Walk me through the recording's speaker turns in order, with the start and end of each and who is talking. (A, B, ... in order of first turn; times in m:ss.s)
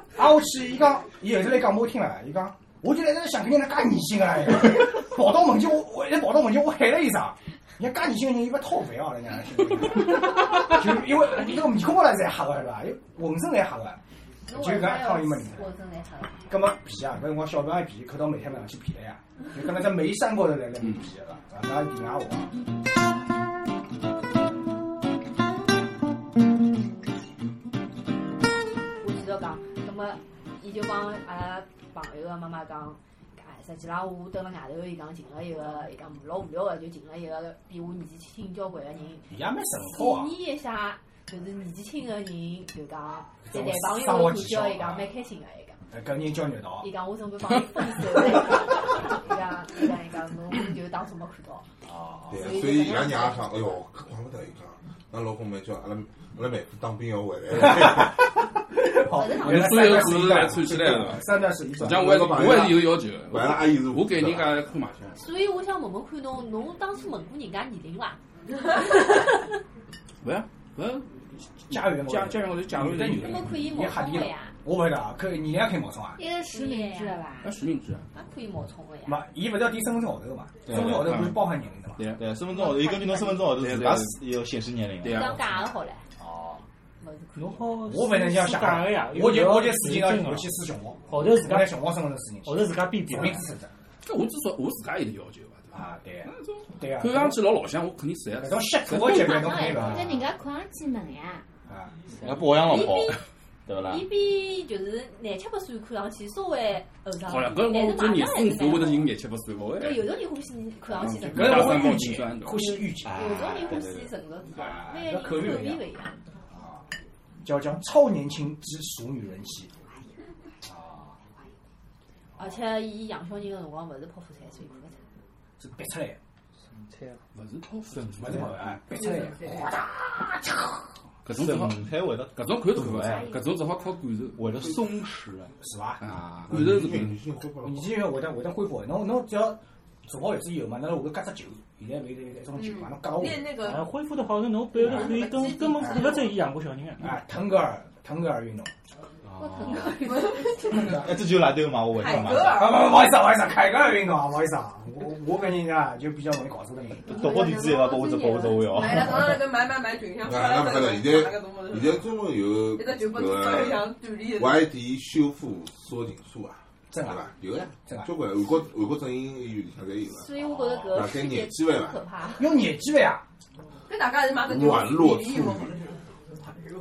0:00.2-0:15.7 A
0:14.4-0:16.5 B
0:16.5-0:22.5 A
0:29.0-0:39.3 B
0:39.3-0:40.3 A
0:39.8-0:45.8 B
0:43.4-0:45.1 A
0:45.9-0:46.9 A
0:46.8-0:51.6 B
0:51.8-0:52.5 A
0:52.3-0:58.2 C
0:52.4-0:53.5 B
0:57.6-1:02.4 A
0:59.1-1:00.3 B
0:59.3-1:05.2 D
1:02.0-1:04.6 C
1:05.2-1:08.2 B
1:10.2-1:13.7 D
1:11.7-1:16.2 A
1:13.2-1:14.5 B
1:16.2-1:17.5 E
1:16.5-1:17.2 B
1:17.4-1:18.0 D
1:18.1-1:19.2 B
1:19.0-1:22.0 A
1:20.7-1:21.4 F
1:20.7-1:21.4 D
1:22.0-1:22.2 D
1:22.1-1:25.6 F
1:22.5-1:23.4 B
1:23.5-1:24.2 D
1:25.0-1:25.6 D
1:25.0-1:26.0 B
1:26.2-1:26.6 A
1:27.0-1:27.7 B
1:27.3-1:30.5 G
1:27.8-1:33.7 A
1:31.1-1:31.8 G
1:32.4-1:33.4 G
1:34.0-1:39.8 D
1:35.7-1:37.4 A
1:38.4-1:40.2 A
1:39.0-1:41.4 E
1:41.7-1:41.9 A
1:42.2-1:44.0 F
1:42.2-1:42.9 D
1:42.6-1:43.2 B
1:43.9-1:49.1 B
1:47.3-1:50.1 D
1:49.8-1:56.1 B
1:50.9-1:52.8 D
1:51.1-1:53.6 A
1:53.0-1:54.1 F
1:54.5-1:55.8 A
1:56.5-1:56.8 A
1:57.4-1:59.7 A
2:00.6-2:01.2 A
2:02.4-2:05.0 B
2:05.6-2:06.2 A
2:06.7-2:07.2 G
2:07.3-2:08.8 D
2:08.2-2:10.9 A
2:11.2-2:14.5 D
2:11.3-2:13.3 F
2:13.1-2:13.4 B
2:14.4-2:15.5 F
2:15.6-2:16.0 A
2:16.0-2:17.2 D
2:16.5-2:18.0 C
2:17.6-2:23.5 A
2:22.5-2:23.9 H
2:23.5-2:27.2 G
2:24.8-2:26.3 H
2:27.0-2:28.7 A
2:29.4-2:31.0 B
2:29.9-2:30.9 H
2:30.7-2:31.1 A
2:30.8-2:32.8 F
2:31.9-2:33.1 H
2:32.3-2:37.2 A
2:37.0-2:39.4 F
2:37.1-2:38.8 B
2:37.3-2:38.1 H
2:38.6-2:42.0 H
2:40.2-2:52.0 C
2:42.7-2:44.7 H
2:46.9-2:47.2 A
2:47.8-2:48.1 A
2:50.1-2:52.5 B
2:52.4-2:53.2 A
2:53.9-2:55.8 H
2:54.4-2:55.8 C